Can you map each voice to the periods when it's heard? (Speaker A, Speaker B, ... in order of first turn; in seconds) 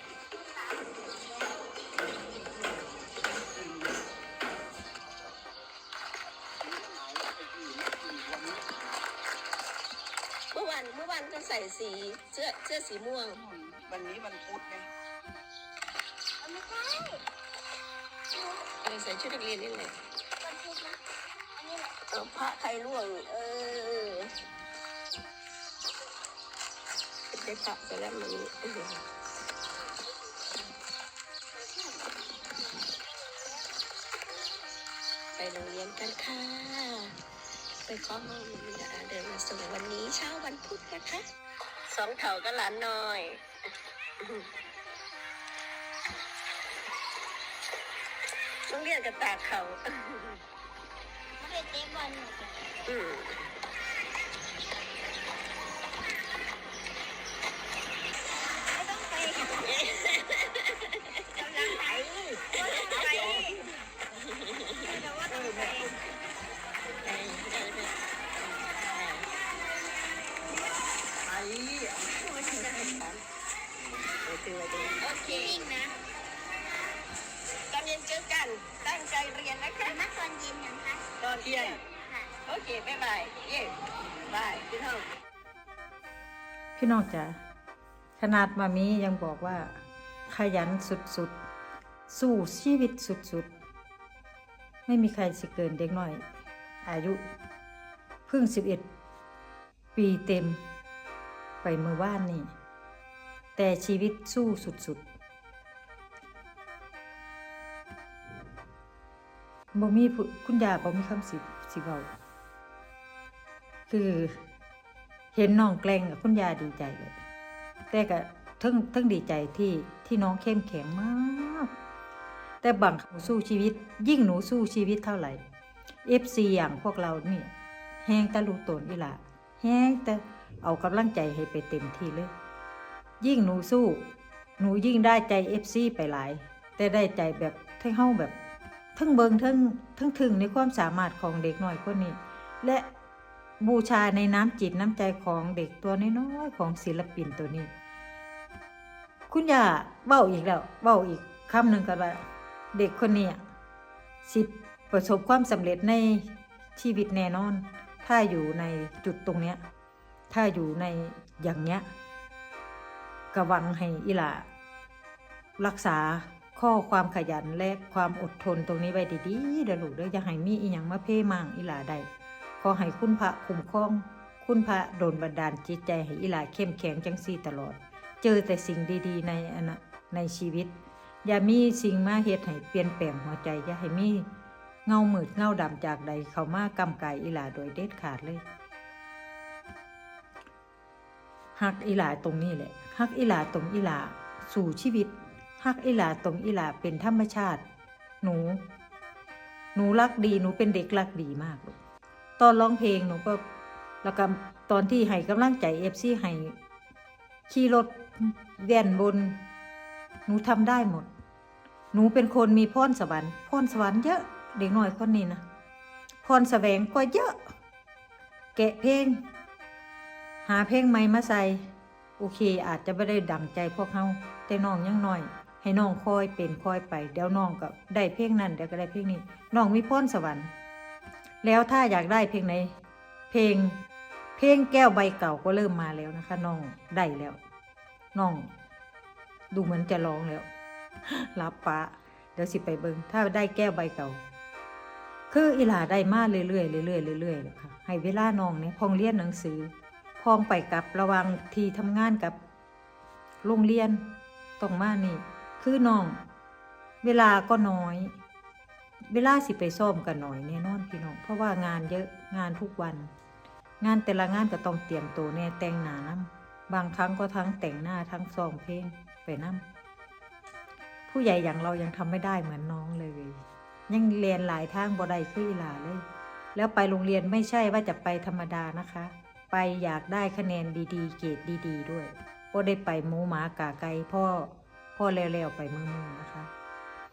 Speaker A: 6.6-8.9, 13.3-14.9
Speaker B: 10.5-13.4, 18.8-19.9, 22.1-24.3, 27.3-29.0, 35.4-37.1, 37.9-41.2, 41.9-43.4, 44.2-44.5, 48.7-50.4, 52.9-53.5, 59.6-63.6, 64.5-66.0, 67.0-67.9, 68.6-69.3, 71.5-73.2, 74.2-75.7, 77.7-80.0, 81.2-81.8, 82.5-83.7, 84.3-85.1
Speaker C: 16.4-17.2, 20.4-21.0, 21.6-21.9, 51.4-52.6, 58.7-59.7, 61.3-63.7, 64.9-65.9, 75.1-76.0, 79.8-81.0, 81.9-82.3
Speaker D: 86.8-87.4, 88.2-89.7, 90.3-91.3, 92.1-93.5, 94.8-96.2, 96.8-97.2, 98.3-98.8, 99.9-100.6, 101.6-102.5, 103.5-105.0, 109.7-112.0, 113.9-114.4, 115.3-117.2, 117.9-121.7, 122.6-125.4, 126.0-127.5, 128.0-132.3, 133.2-134.0, 134.6-138.3, 138.9-142.9, 143.6-147.7, 149.3-153.4, 154.2-159.6, 160.3-161.8, 163.3-164.4, 165.6-172.1, 172.6-180.7, 181.2-184.2, 184.8-188.4, 191.6-197.6, 198.2-198.6, 199.7-201.8, 202.4-203.4, 204.0-206.6, 207.5-209.4, 210.2-211.1, 211.9-215.4, 216.2-217.4, 218.5-219.2, 220.4-221.7, 222.2-230.5, 231.4-232.7, 233.3-233.8, 234.4-237.4, 238.1-238.5, 239.5-240.5, 241.1-244.2, 245.3-252.4, 253.4-254.0, 254.6-256.2, 257.0-258.1, 259.1-263.1, 263.8-269.6, 271.1-276.0, 276.5-286.5